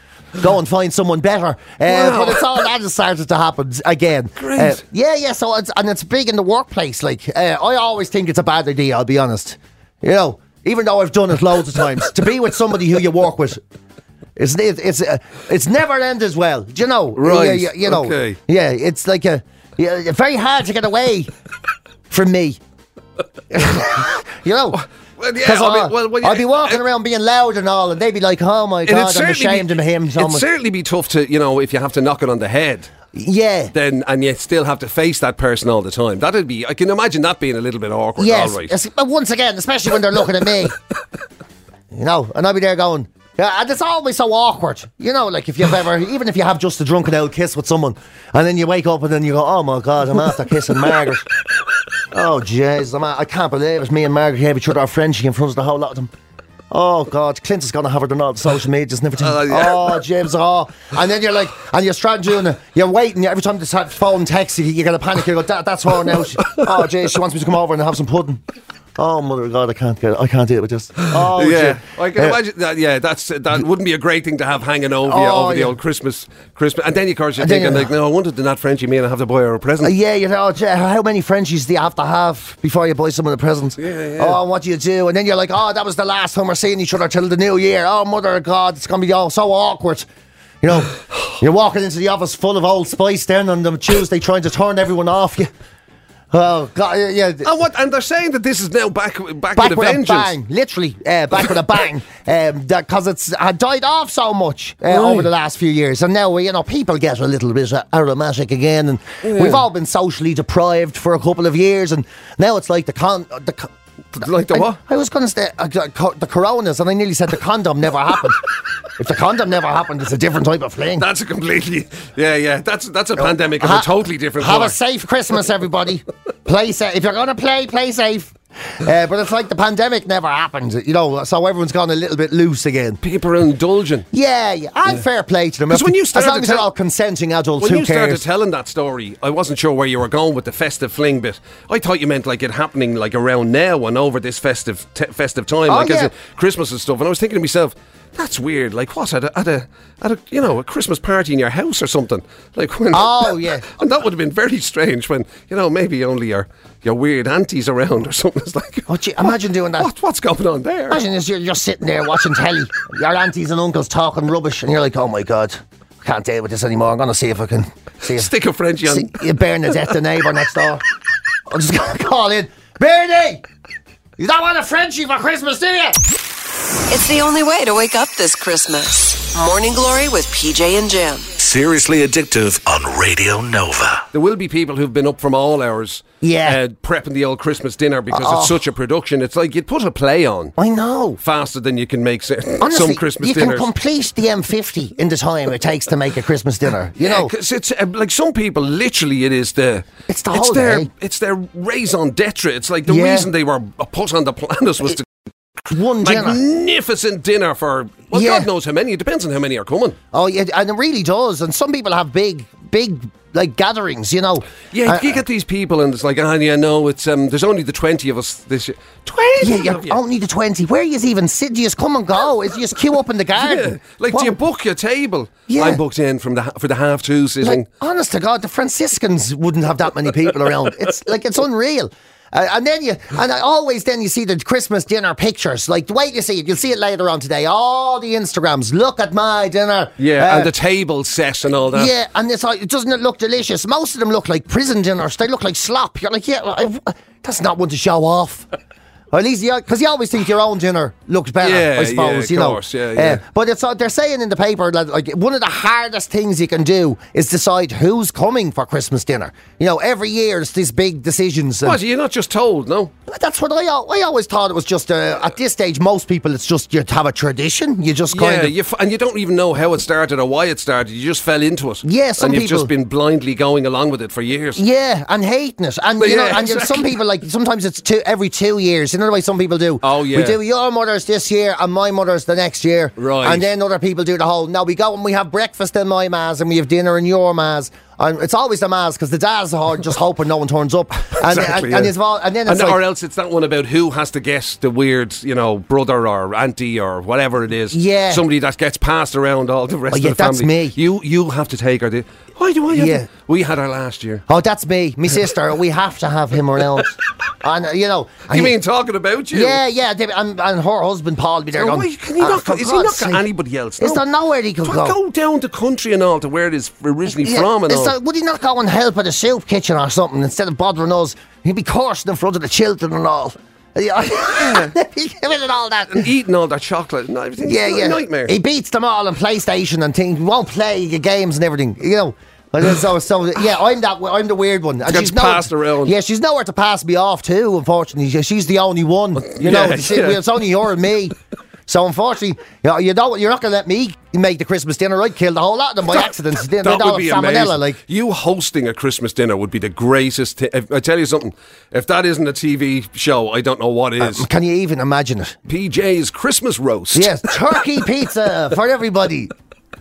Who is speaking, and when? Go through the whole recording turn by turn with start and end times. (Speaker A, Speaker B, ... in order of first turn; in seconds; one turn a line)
Speaker A: 0.4-13.6
Speaker B: 1.9-2.5
Speaker B: 4.4-4.8
Speaker A: 14.3-21.3
Speaker B: 17.1-18.4
Speaker A: 22.1-22.6
Speaker A: 23.5-24.8
Speaker B: 25.2-26.8
Speaker A: 25.4-30.4
Speaker B: 28.9-32.9
Speaker A: 33.1-33.7
Speaker B: 33.7-38.7
Speaker A: 38.2-40.8
Speaker A: 41.9-51.3
Speaker A: 52.1-56.1
Speaker A: 56.7-68.4
Speaker B: 59.2-60.0
Speaker B: 66.4-66.7
Speaker A: 69.0-72.4
Speaker B: 71.0-79.9
Speaker A: 75.0-75.8
Speaker A: 77.4-77.9
Speaker A: 79.8-90.1
Speaker B: 83.8-84.4
Speaker A: 90.6-95.5
Speaker A: 96.3-97.5
Speaker B: 97.4-100.3
Speaker A: 99.5-113.7
Speaker B: 104.9-105.3
Speaker B: 109.2-109.6
Speaker B: 114.1-114.8
Speaker A: 114.5-118.4
Speaker A: 119.0-121.0
Speaker B: 121.0-124.8
Speaker A: 123.2-133.0
Speaker B: 133.0-134.1
Speaker A: 134.1-138.2
Speaker B: 135.7-136.7
Speaker B: 137.6-161.0
Speaker A: 145.7-146.1
Speaker A: 152.9-153.6
Speaker A: 158.9-159.9
Speaker A: 160.9-168.3
Speaker B: 168.0-169.1
Speaker A: 168.8-170.8
Speaker A: 171.5-173.4
Speaker A: 174.2-176.0
Speaker C: 176.9-181.3
Speaker D: 181.4-184.0
Speaker B: 184.1-190.6
Speaker A: 186.2-186.6
Speaker A: 188.1-188.6
Speaker A: 190.6-191.2
Speaker B: 191.2-193.7
Speaker A: 192.6-197.3
Speaker B: 197.0-205.1
Speaker A: 200.1-200.9
Speaker A: 202.8-203.3
Speaker B: 205.6-210.0
Speaker A: 205.7-206.4
Speaker A: 208.1-208.5
Speaker A: 210.1-215.2
Speaker B: 214.7-220.0
Speaker A: 219.4-224.4
Speaker B: 223.4-227.6
Speaker A: 225.5-225.8
Speaker A: 227.4-240.5
Speaker B: 240.0-241.9
Speaker A: 241.7-248.4
Speaker A: 249.1-261.8
Speaker B: 251.4-253.2
Speaker B: 261.6-262.9
Speaker A: 263.1-268.5
Speaker B: 268.1-274.6
Speaker A: 271.8-272.7
Speaker A: 274.5-292.8
Speaker B: 276.0-277.0
Speaker B: 279.8-280.4
Speaker B: 283.0-283.4
Speaker B: 291.1-291.9
Speaker B: 292.4-304.2
Speaker A: 297.7-298.2
Speaker A: 299.9-300.8
Speaker A: 302.7-303.1
Speaker A: 304.3-308.6
Speaker B: 308.3-309.6
Speaker A: 309.3-313.2
Speaker B: 311.5-314.0
Speaker A: 313.8-315.0
Speaker B: 314.6-317.9
Speaker A: 317.1-326.1
Speaker B: 324.4-324.7
Speaker B: 325.9-328.4
Speaker A: 327.4-341.1
Speaker B: 334.9-335.9
Speaker B: 339.2-340.2
Speaker A: 341.7-347.8
Speaker B: 345.9-354.2
Speaker A: 354.0-355.3
Speaker B: 355.5-357.3
Speaker A: 356.9-359.3